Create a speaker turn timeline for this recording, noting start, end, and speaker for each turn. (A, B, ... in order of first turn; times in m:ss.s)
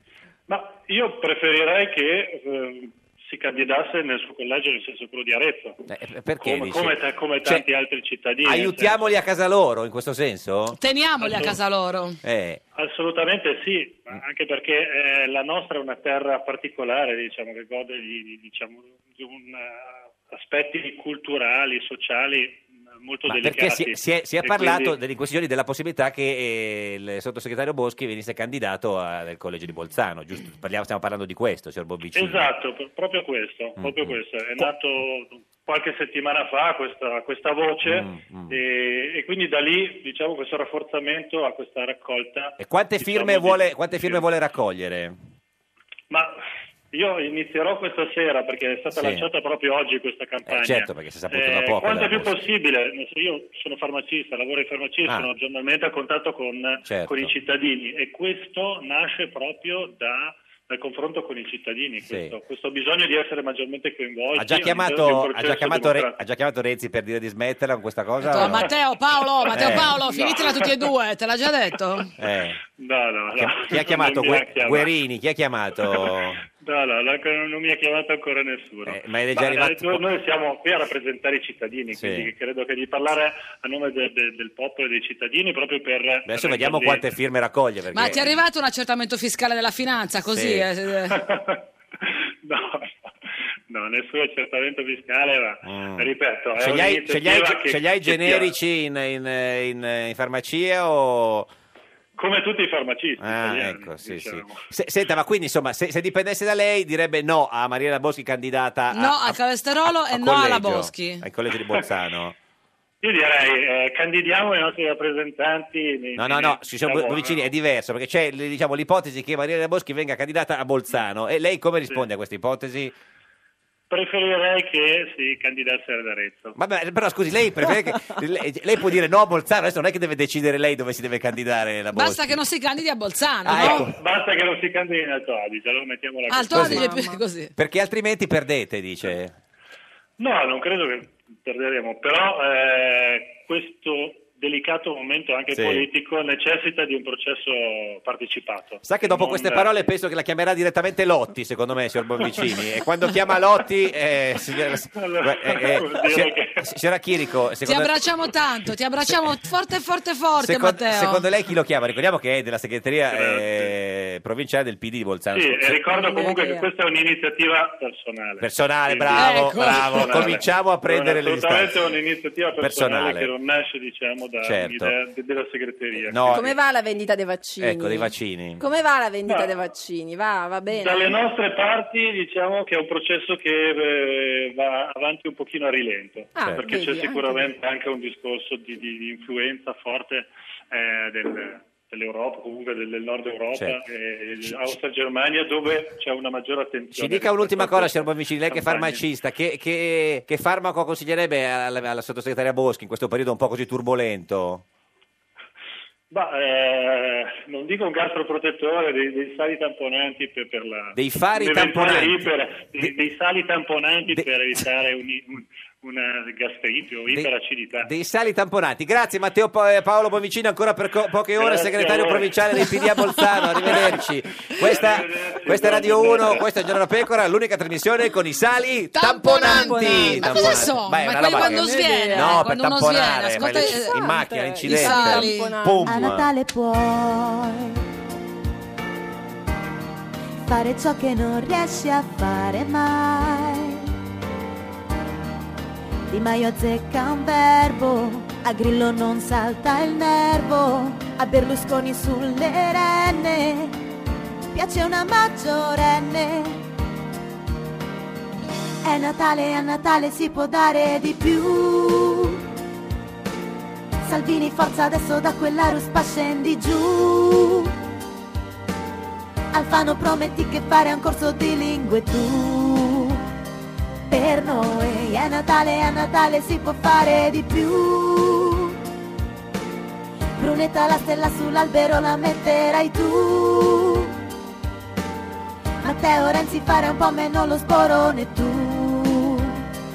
0:00.5-0:05.8 A
0:05.9-0:07.7 B
0:06.4-0:09.2 A
0:08.4-0:10.8 B
0:10.7-0:12.2 C
0:11.2-0:11.6 A
0:12.2-0:12.6 B
0:12.8-0:25.0 A
0:23.3-0:32.5 B
0:32.1-0:44.2 A
0:33.8-0:34.7 B
0:37.8-0:38.6 B
0:42.6-0:45.2 B
0:46.1-0:46.4 A
0:46.9-1:06.2 A
0:49.0-0:49.3 B
0:50.5-0:52.4 B
0:55.1-0:55.3 B
0:56.8-0:57.3 B
1:02.1-1:02.4 B
1:04.4-1:08.6 B
1:08.3-1:12.1 C
1:08.3-1:08.7 A
1:09.5-1:10.1 B
1:09.5-1:10.8 A
1:12.2-1:12.6 B
1:12.7-1:14.9 A
1:13.4-1:16.4 B
1:15.9-1:27.1 A
1:18.9-1:20.1 B
1:21.9-1:22.3 B
1:26.3-1:28.3 B
1:27.9-1:31.2 C
1:30.3-1:30.7 B
1:31.1-1:33.1 A
1:33.7-1:38.6 A
1:35.6-1:41.5 B
1:42.2-1:44.7 A
1:43.2-1:52.4 B
1:48.9-1:51.2 C
1:53.0-1:57.5 A
1:56.2-2:02.9 B
2:03.9-2:06.6 A
2:06.6-2:12.4 B
2:11.9-2:13.9 C
2:13.4-2:14.0 B
2:13.6-2:16.7 A
2:16.3-2:17.5 C
2:16.5-2:16.9 B
2:16.6-2:17.2 D
2:17.6-2:19.3 B
2:20.2-2:29.8 A
2:25.5-2:25.9 B
2:28.8-2:37.9 B
2:32.2-2:32.5 A
2:35.0-2:36.7 A
2:37.7-2:41.2 C
2:40.4-2:45.8 B
2:43.1-2:43.7 A
2:45.3-2:56.6 A
2:45.8-2:46.7 D
2:48.4-2:51.9 B
2:49.2-2:50.3 C
2:52.6-2:53.3 B
2:54.4-2:54.9 B
2:56.1-2:56.5 B
2:56.3-3:01.2 D
2:57.6-2:58.6 B
3:00.7-3:19.0 A
3:06.4-3:07.5 D
3:13.5-3:13.8 B
3:14.4-3:14.8 B
3:17.0-3:24.6 B
3:26.1-3:37.9 A
3:31.0-3:33.0 B
3:34.1-3:34.6 B
3:37.1-3:56.3 B
3:41.4-3:42.4 A
3:43.6-3:44.0 A
3:44.5-3:46.6 A
3:49.0-3:54.0 C
3:49.4-3:52.5 D
3:53.4-3:56.1 D
3:54.7-3:55.6 C
3:55.9-3:57.8 E
4:00.4-4:03.9 E
4:06.1-4:13.8 E
4:14.5-4:16.6 E
4:18.8-4:22.4 E
4:24.0-4:27.8 E
4:29.5-4:33.2 E
4:34.1-4:38.8 E
4:40.4-4:44.2 E
4:45.8-4:49.6 E